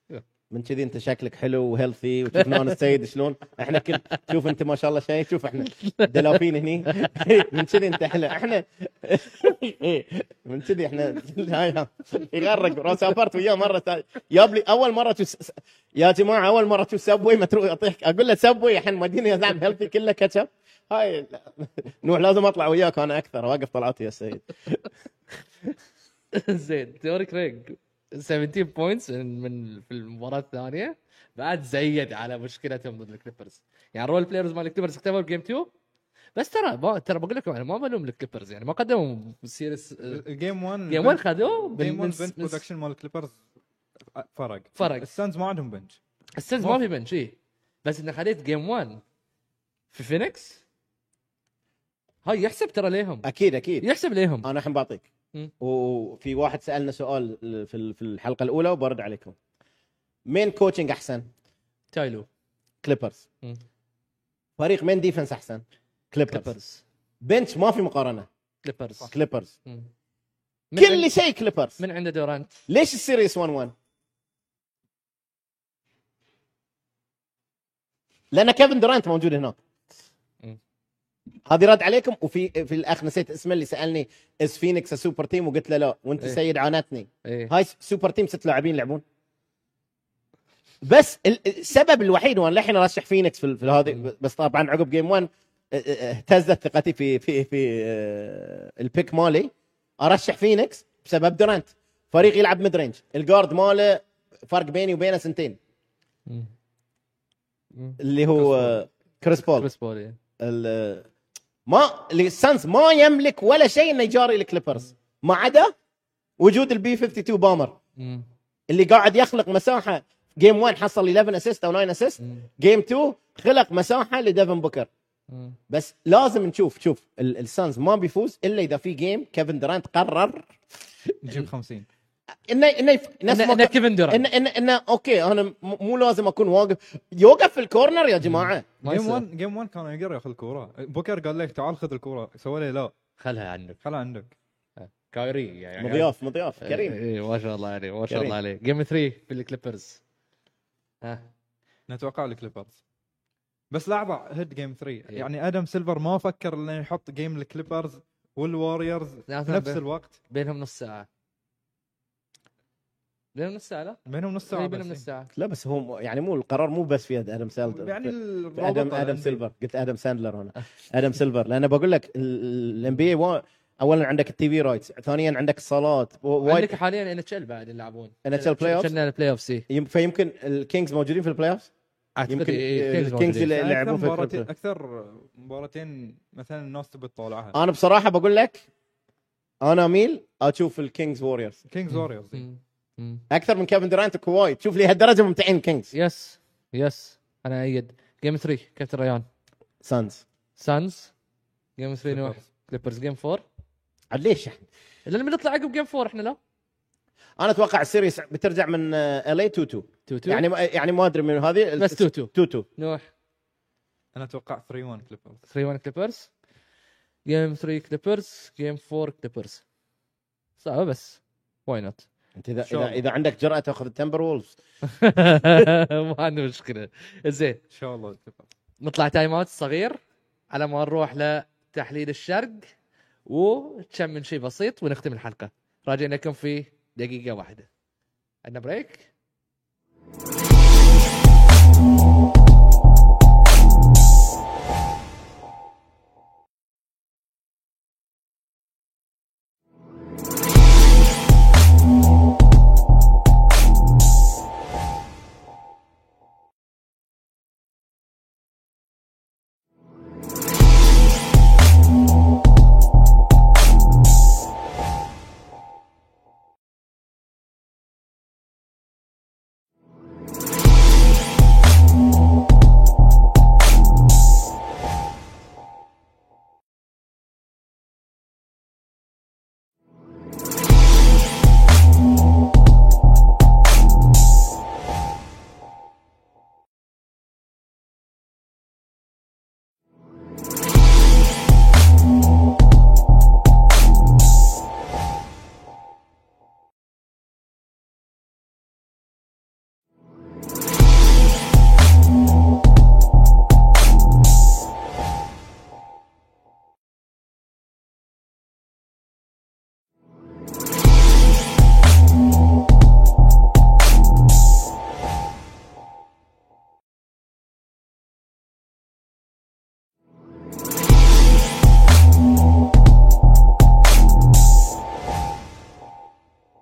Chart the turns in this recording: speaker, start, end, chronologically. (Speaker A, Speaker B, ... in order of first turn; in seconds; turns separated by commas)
Speaker A: 0.5-24.8, Speaker B: 2.4-2.7, Speaker B: 5.7-7.2, Speaker B: 26.3-35.7, Speaker B: 36.4-40.2, Speaker C: 40.1-43.4, Speaker B: 40.9-42.6, Speaker C: 44.1-46.0, Speaker B: 44.8-45.1, Speaker B: 46.4-49.0, Speaker B: 49.9-50.6, Speaker B: 52.2-53.3, Speaker A: 53.2-53.9, Speaker B: 53.8-54.5, Speaker A: 54.4-55.1, Speaker A: 55.6-59.4, Speaker A: 60.3-61.3, Speaker B: 61.9-62.3, Speaker A: 62.8-63.2, Speaker A: 64.6-66.5, Speaker B: 66.3-66.8, Speaker A: 67.2-68.3, Speaker B: 68.6-69.1, Speaker A: 69.1-69.5, Speaker B: 70.7-71.1, Speaker A: 70.8-71.8, Speaker B: 71.8-72.6, Speaker A: 72.7-73.7, Speaker A: 78.3-79.6, Speaker A: 81.5-89.0, Speaker B: 87.2-87.5, Speaker A: 90.8-105.6, Speaker B: 107.7-108.8, Speaker A: 108.0-109.7, Speaker B: 109.5-110.2, Speaker A: 110.4-111.1, Speaker A: 111.7-115.7, Speaker A: 116.4-117.8, Speaker B: 118.0-118.3, Speaker A: 118.7-124.9, Speaker B: 122.2-122.5, Speaker B: 125.3-125.6, Speaker A: 125.7-130.5, Speaker A: 131.1-131.4, Speaker C: 131.2-131.9, Speaker A: 132.5-138.7, Speaker B: 133.3-134.3, Speaker B: 138.2-139.2, Speaker C: 138.8-142.9, Speaker B: 143.2-143.8, Speaker C: 143.8-144.3, Speaker B: 144.8-150.0, Speaker A: 145.8-147.0, Speaker A: 148.1-148.4, Speaker B: 151.0-151.3, Speaker C: 151.9-152.8, Speaker C: 153.7-160.2, Speaker B: 159.3-161.1, Speaker B: 163.3-165.3, Speaker C: 164.1-165.1, Speaker A: 165.3-176.8, Speaker C: 167.7-169.4, Speaker B: 176.4-179.7, Speaker A: 178.2-178.9, Speaker A: 179.7-181.7, Speaker B: 182.2-183.5, Speaker A: 182.3-184.5, Speaker C: 183.5-187.6, Speaker A: 187.5-188.6, Speaker A: 189.6-191.6, Speaker C: 191.7-192.4, Speaker B: 191.9-193.2, Speaker A: 193.3-195.9, Speaker B: 195.9-199.3, Speaker A: 199.8-200.2, Speaker B: 200.6-201.1, Speaker B: 201.8-203.4, Speaker C: 202.1-202.4, Speaker A: 204.1-204.6, Speaker B: 205.1-206.4, Speaker A: 207.4-212.7, Speaker B: 210.1-210.5, Speaker B: 211.8-213.0, Speaker C: 214.2-215.4, Speaker B: 215.5-216.3, Speaker B: 217.3-219.6, Speaker B: 220.6-222.1, Speaker A: 222.4-224.6, Speaker C: 222.7-223.0, Speaker B: 224.8-227.6, Speaker C: 227.7-228.5, Speaker B: 228.8-230.0, Speaker B: 230.5-232.7, Speaker B: 233.3-237.7, Speaker B: 238.4-239.1